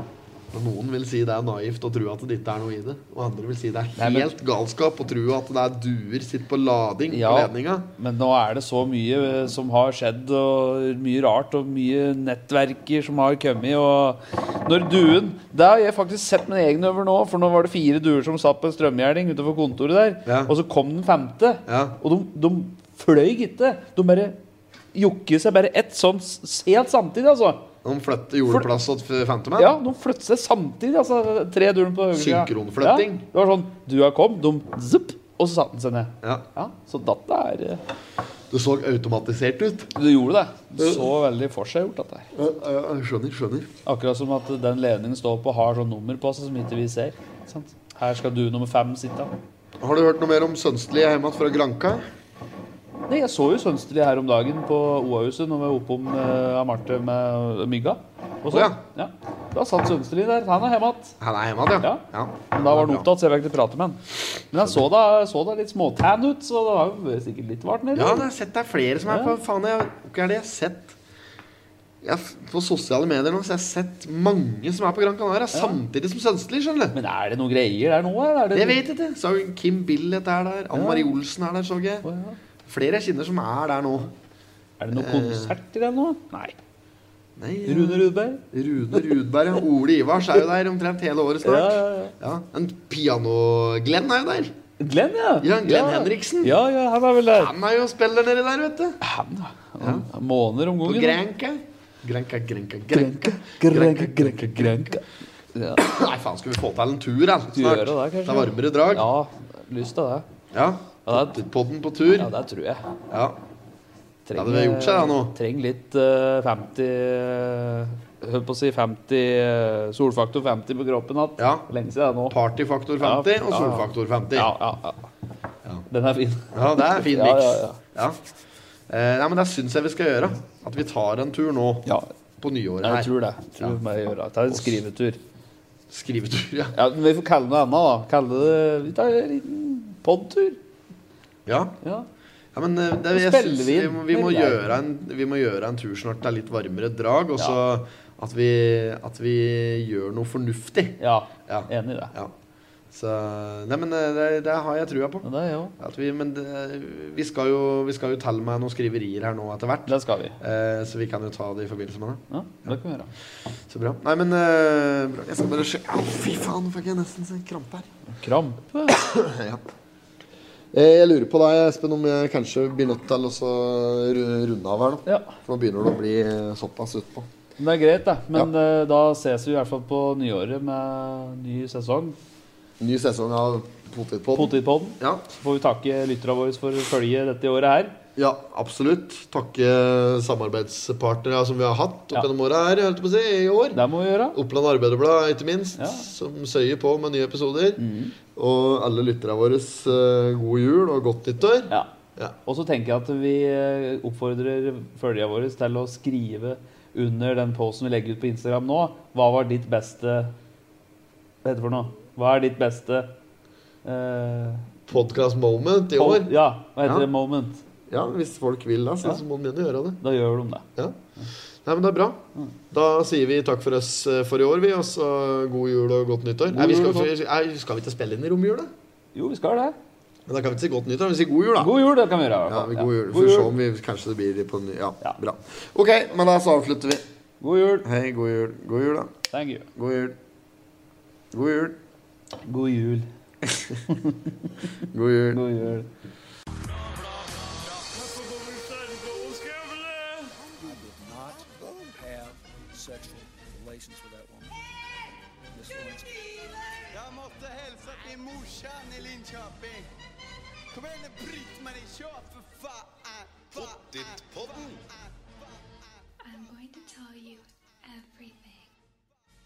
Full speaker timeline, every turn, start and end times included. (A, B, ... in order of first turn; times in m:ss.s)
0:00.5-0:07.9 A
0:04.0-0:04.3 B
0:07.1-0:24.4 B
0:20.3-0:20.5 A
0:21.7-0:22.0 A
0:24.9-0:27.7 B
0:27.8-0:29.8 A
0:29.6-0:37.8 B
0:32.1-0:33.2 A
0:38.5-0:39.9 A
0:40.0-0:42.3 B
0:40.8-0:41.1 A
0:42.3-0:43.7 A
0:43.8-0:49.3 B
0:49.8-0:52.1 A
0:53.1-1:01.2 B
0:58.5-0:58.8 A
1:01.2-1:03.1 A
1:01.8-1:04.0 B
1:04.5-1:08.3 B
1:04.6-1:04.8 A
1:08.0-1:11.0 A
1:09.1-1:09.3 B
1:12.0-1:17.0 A
1:15.5-1:15.8 B
1:16.9-1:18.8 B
1:18.5-1:22.1 A
1:20.7-1:21.1 B
1:22.0-1:22.4 B
1:22.6-1:24.1 A
1:24.8-1:26.6 B
1:24.9-1:25.6 A
1:27.4-1:34.6 A
1:27.7-1:28.4 B
1:31.4-1:32.2 B
1:34.8-1:37.5 B
1:35.4-1:36.6 A
1:37.4-1:39.0 A
1:39.0-1:41.2 B
1:39.8-1:40.1 A
1:40.8-1:44.9 A
1:42.9-1:45.8 B
1:45.8-1:49.1 A
1:47.5-1:50.2 B
1:50.5-1:52.3 A
1:51.1-1:51.4 B
1:52.2-1:52.8 B
1:53.1-1:53.4 A
1:54.3-2:02.4 B
1:54.4-1:55.3 A
2:01.4-2:01.7 A
2:02.3-2:04.5 A
2:03.0-2:05.1 B
2:05.9-2:07.8 B
2:06.5-2:08.2 A
2:08.9-2:11.9 A
2:12.4-2:13.8 A
2:12.8-2:15.2 B
2:14.5-2:14.8 A
2:15.9-2:16.8 A
2:16.8-2:20.6 B
2:21.5-2:21.8 A
2:21.8-2:22.1 B
2:22.5-2:32.3 A
2:23.1-2:24.6 B
2:31.0-2:32.1 B
2:32.9-2:35.3 A
2:35.2-2:35.8 B
2:35.8-2:42.7 A
2:39.9-2:40.4 B
2:42.3-2:43.1 B
2:43.7-2:47.9 A
2:48.1-2:49.0 B
2:48.9-2:49.6 A
2:50.7-2:57.3 A
2:55.1-2:55.4 B
2:57.6-3:02.2 B
3:02.8-3:05.2 A
3:04.4-3:07.9 B
3:08.2-3:13.8 A
3:13.8-3:14.4 B
3:14.3-3:22.4 A
3:15.8-3:16.1 B
3:17.8-3:18.2 B
3:22.5-3:30.3 B
3:31.4-3:33.1 B
3:33.8-3:34.7 B
3:34.9-3:37.1 A
3:36.0-3:37.6 B
3:37.9-3:40.0 A
3:40.0-3:40.7 B
3:41.6-3:48.7 A
3:46.5-3:47.1 B
3:49.2-3:49.8 B
3:50.3-3:51.7 A
3:51.6-3:53.5 B
3:52.5-3:57.1 A
3:57.4-3:57.8 B
3:57.8-3:59.1 A
3:59.3-3:59.7 B
3:59.8-4:00.2 A
4:01.3-4:01.8 A
4:02.4-4:03.1 B
4:03.4-4:03.8 A
4:03.9-4:04.3 B
4:04.9-4:05.4 A
4:05.3-4:05.9 B
4:06.6-4:10.1 C
4:10.3-4:14.7 D
4:15.5-4:16.5 D
4:16.9-4:19.9 C
4:20.7-4:25.2 C
4:26.2-4:28.7 E